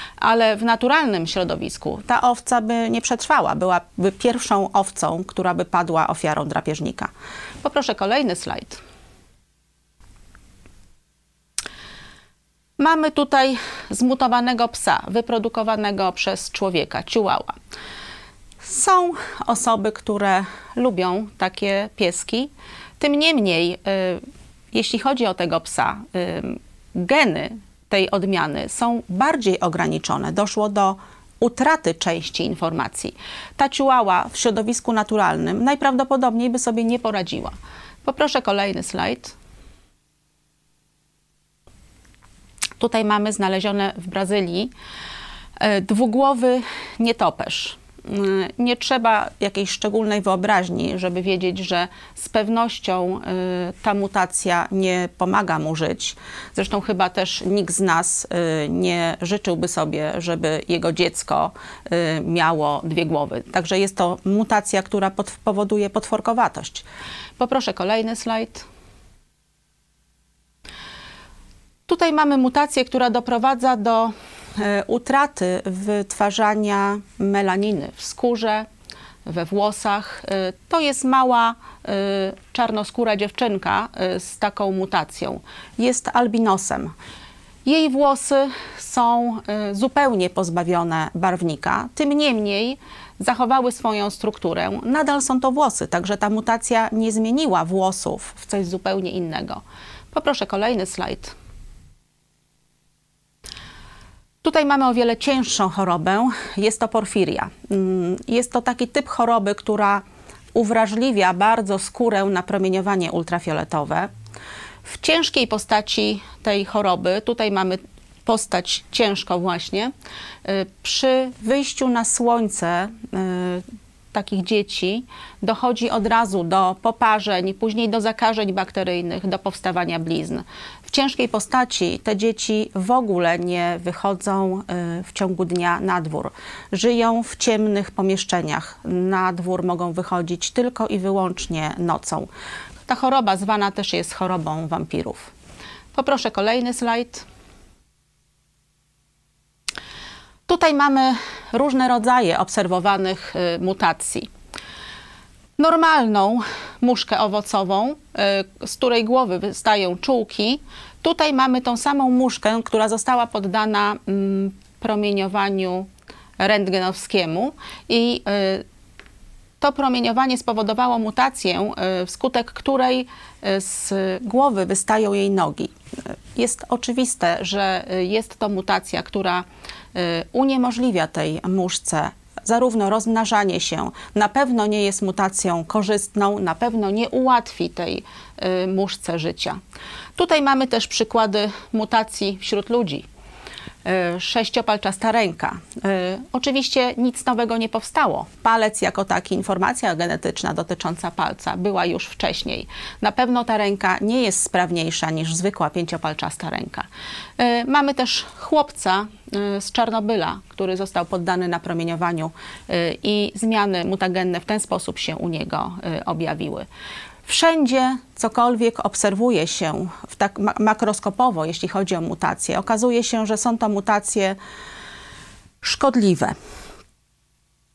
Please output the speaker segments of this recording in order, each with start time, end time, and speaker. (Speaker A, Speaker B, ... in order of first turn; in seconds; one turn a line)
Speaker A: 0.2-7.1
Speaker A: 7.6-8.8
Speaker A: 12.8-17.5
Speaker A: 18.6-24.2
Speaker A: 24.7-39.4
Speaker A: 42.8-44.7
Speaker A: 45.6-66.8
Speaker A: 67.4-68.7
Speaker A: 71.9-78.7
Speaker A: 79.2-86.9
Speaker A: 87.7-101.4
Speaker A: 104.4-110.0
Speaker A: 110.5-114.1
Speaker A: 114.8-119.9
Speaker A: 120.4-142.3
Speaker A: 142.9-145.3
Speaker A: 145.9-147.3
Speaker A: 150.5-154.3
Speaker A: 155.6-165.9
Speaker A: 166.4-168.7
Speaker A: 169.6-189.6
Speaker A: 190.2-193.1
Speaker A: 193.8-206.9
Speaker A: 207.4-216.7
Speaker A: 217.3-224.4
Speaker A: 225.6-226.3